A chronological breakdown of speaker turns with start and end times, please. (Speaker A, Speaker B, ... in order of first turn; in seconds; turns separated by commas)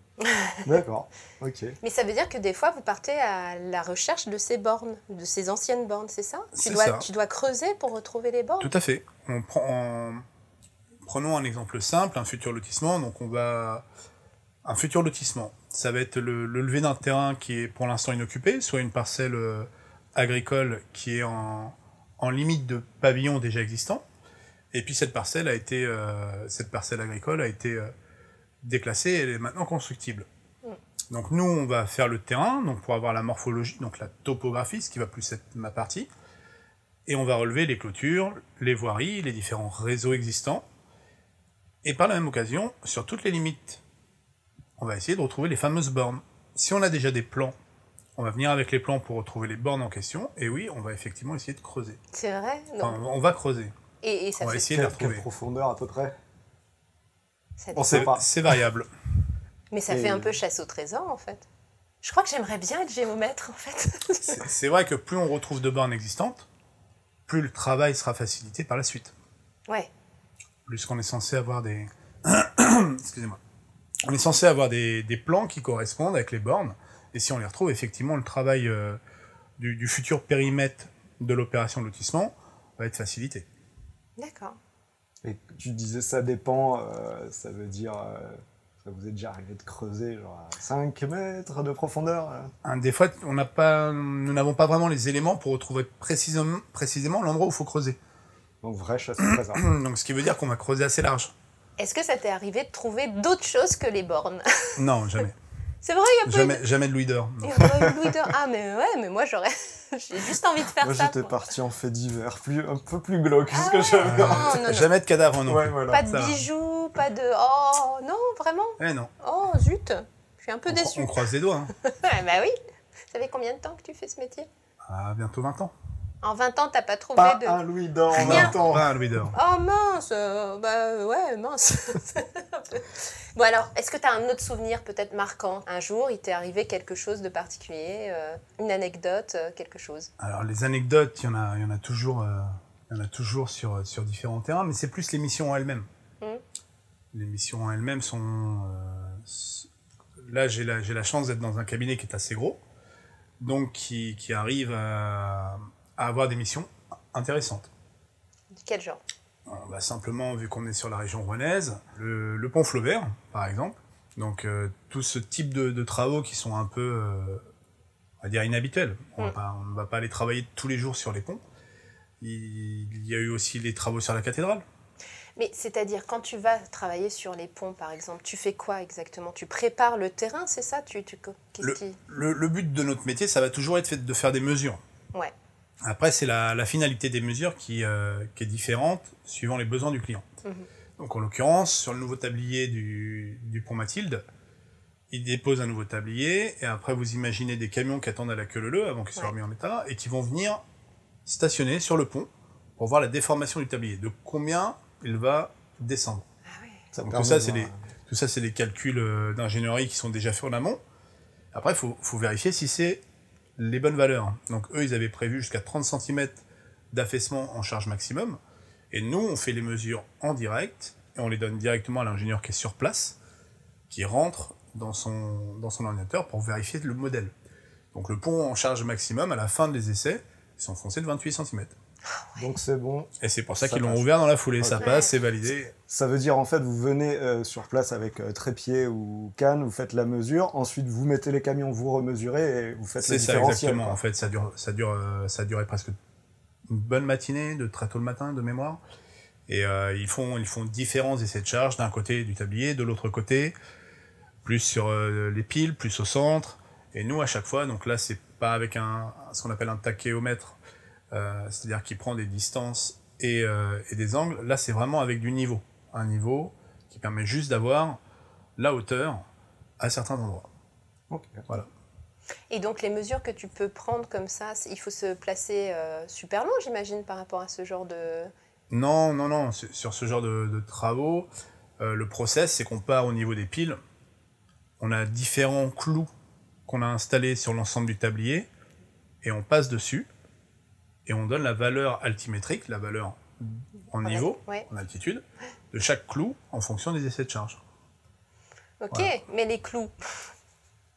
Speaker A: 0.2-0.7, Speaker B: 0.6-1.8, Speaker A: 1.8-8.7, Speaker C: 6.5-7.0, Speaker C: 8.6-10.2, Speaker C: 11.0-13.8, Speaker C: 14.6-24.0, Speaker C: 24.7-27.9, Speaker C: 28.6-30.3, Speaker C: 31.1-36.1, Speaker C: 37.1-40.6, Speaker C: 41.8-43.8, Speaker C: 44.8-47.5, Speaker C: 48.1-52.0, Speaker A: 52.1-53.0, Speaker C: 52.8-53.7, Speaker A: 54.0-54.8, Speaker C: 54.4-55.2, Speaker B: 54.6-56.1, Speaker A: 57.6-58.1, Speaker B: 57.7-58.2, Speaker C: 57.9-58.9, Speaker A: 59.7-61.5, Speaker B: 59.9-60.4, Speaker A: 62.0-64.4, Speaker C: 64.3-66.5, Speaker C: 67.3-69.1, Speaker C: 70.7-73.4, Speaker C: 74.0-79.0, Speaker C: 79.6-83.5, Speaker A: 84.2-84.6, Speaker B: 85.2-92.5, Speaker C: 92.6-98.0, Speaker B: 98.6-99.6, Speaker C: 99.2-101.3, Speaker A: 101.8-104.8, Speaker C: 104.8-105.3, Speaker A: 105.8-106.6, Speaker C: 106.2-107.9, Speaker A: 107.4-111.3, Speaker B: 110.8-114.7, Speaker A: 113.5-114.9, Speaker C: 114.0-116.4, Speaker B: 115.5-116.0, Speaker A: 115.9-121.2, Speaker C: 118.8-119.1, Speaker C: 120.7-121.7, Speaker A: 121.8-122.5, Speaker A: 123.1-124.5, Speaker C: 124.8-125.7, Speaker A: 126.2-127.6, Speaker B: 127.2-128.9, Speaker A: 128.1-128.6, Speaker C: 128.1-129.3, Speaker A: 129.3-140.1, Speaker C: 140.2-145.9, Speaker C: 147.1-152.6, Speaker C: 153.4-157.7, Speaker A: 158.6-159.0, Speaker C: 159.4-167.4, Speaker C: 168.2-171.4, Speaker C: 172.2-174.6, Speaker A: 175.4-182.0, Speaker C: 181.6-184.8, Speaker C: 185.8-190.2, Speaker C: 191.0-194.2, Speaker C: 195.1-200.6, Speaker C: 201.2-206.2, Speaker A: 206.5-206.8, Speaker B: 206.9-207.8, Speaker C: 207.0-210.8, Speaker C: 211.5-213.0, Speaker C: 213.6-218.4, Speaker C: 218.9-223.2, Speaker C: 223.9-227.3, Speaker C: 227.9-231.7, Speaker A: 232.1-232.5, Speaker B: 232.4-234.1, Speaker C: 233.2-235.7, Speaker B: 234.6-235.0, Speaker A: 234.8-235.1, Speaker B: 235.9-244.0, Speaker C: 243.0-245.9, Speaker C: 246.7-248.8, Speaker C: 249.5-253.5, Speaker C: 254.4-260.6, Speaker C: 261.1-268.0, Speaker C: 268.6-269.2, Speaker C: 269.8-270.5, Speaker B: 271.1-271.4, Speaker A: 272.5-278.3, Speaker C: 278.7-281.3, Speaker C: 281.8-283.8, Speaker C: 284.8-286.1, Speaker C: 286.7-288.5, Speaker C: 289.2-290.1, Speaker C: 291.1-297.6, Speaker A: 294.0-294.6, Speaker A: 298.8-299.9